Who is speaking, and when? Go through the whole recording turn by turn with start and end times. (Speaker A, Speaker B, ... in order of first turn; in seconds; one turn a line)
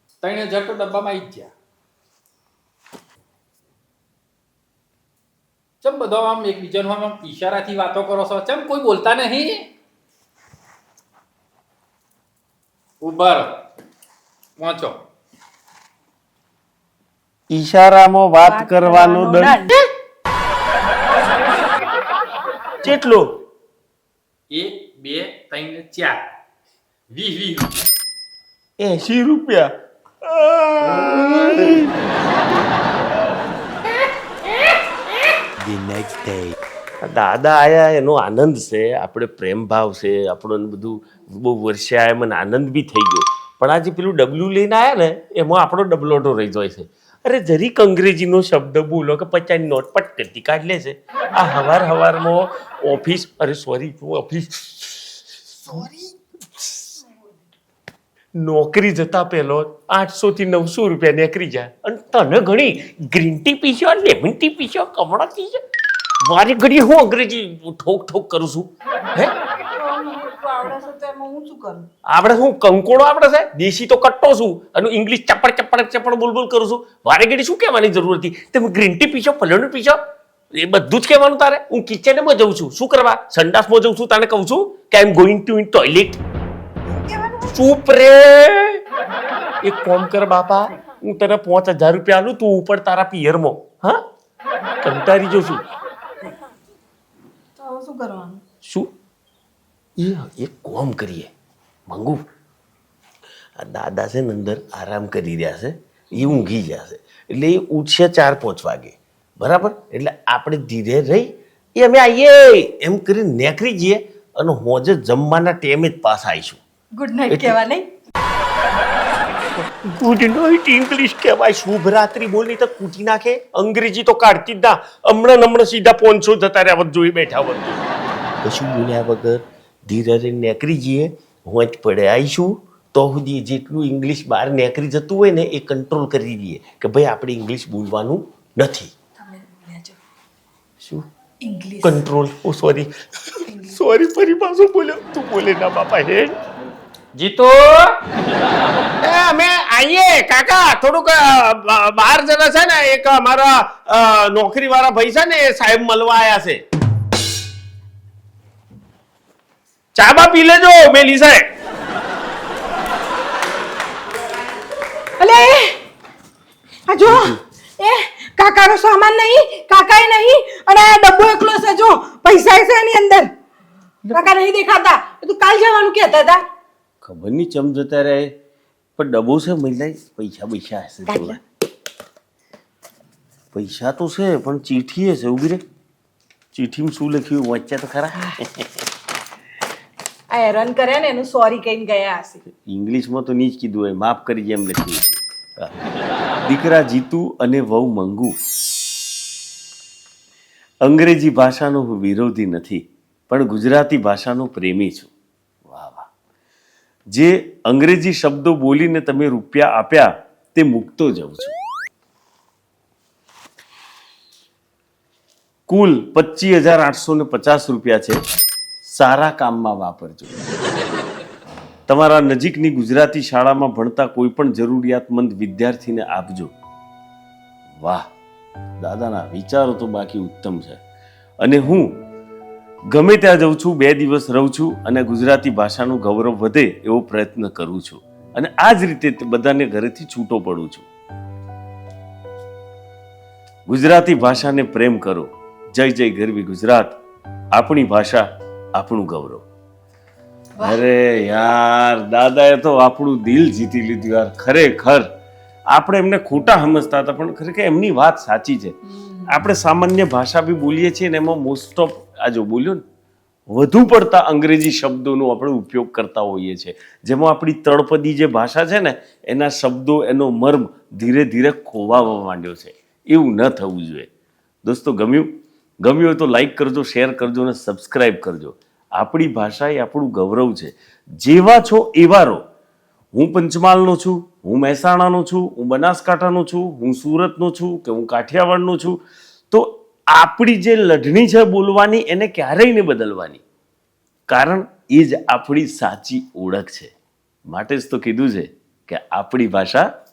Speaker A: 0.2-1.5
Speaker A: 5.8-9.7
Speaker A: 13.0-13.6
Speaker A: 14.6-15.0
Speaker B: 17.5-19.6
Speaker C: 18.4-19.8
Speaker B: 22.8-23.2
Speaker A: 24.5-26.2
Speaker A: 27.1-27.9
Speaker B: 28.8-29.7
Speaker B: 30.2-31.9
Speaker B: 37.0-55.9
Speaker B: 58.4-65.6
Speaker B: 66.2-69.3
Speaker C: 69.7-71.9
Speaker B: 72.1-80.0
Speaker B: 80.5-86.2
Speaker C: 86.9-87.5
Speaker B: 87.5-88.8
Speaker B: 89.6-94.0
Speaker B: 94.8-95.6
Speaker C: 97.6-98.4
Speaker B: 98.6-98.9
Speaker B: 100.0-101.3
Speaker B: 101.9-102.2
Speaker B: 103.6-116.6
Speaker C: 117.0-117.9
Speaker B: 117.3-117.6
Speaker B: 119.6-127.8
Speaker B: 128.4-138.9
Speaker C: 139.2-140.0
Speaker C: 141.4-142.0
Speaker B: 141.8-146.4
Speaker C: 143.5-143.8
Speaker A: 147.1-148.0
Speaker B: 149.0-156.6
Speaker B: 159.9-161.4
Speaker C: 165.2-165.8
Speaker C: 166.9-173.3
Speaker B: 167.1-167.4
Speaker B: 174.1-174.3
Speaker C: 174.1-176.4
Speaker B: 177.0-178.3
Speaker B: 179.0-181.4
Speaker C: 181.1-181.4
Speaker B: 183.5-185.6
Speaker B: 186.5-188.7
Speaker C: 190.3-192.4
Speaker B: 192.6-195.7
Speaker B: 196.4-198.3
Speaker B: 200.8-205.1
Speaker B: 205.7-206.1
Speaker B: 207.1-211.6
Speaker B: 215.7-218.2
Speaker B: 218.9-220.4
Speaker B: 221.9-226.5
Speaker B: 228.8-230.8
Speaker B: 231.4-231.8
Speaker B: 232.9-240.9
Speaker B: 243.7-247.0
Speaker B: 247.5-248.2
Speaker B: 248.8-249.4
Speaker B: 250.6-255.1
Speaker B: 255.7-262.8
Speaker B: 263.5-274.1
Speaker B: 274.6-275.3
Speaker B: 275.8-282.4
Speaker B: 283.1-289.0
Speaker B: 289.5-293.4
Speaker B: 294.3-296.9
Speaker B: 297.5-299.8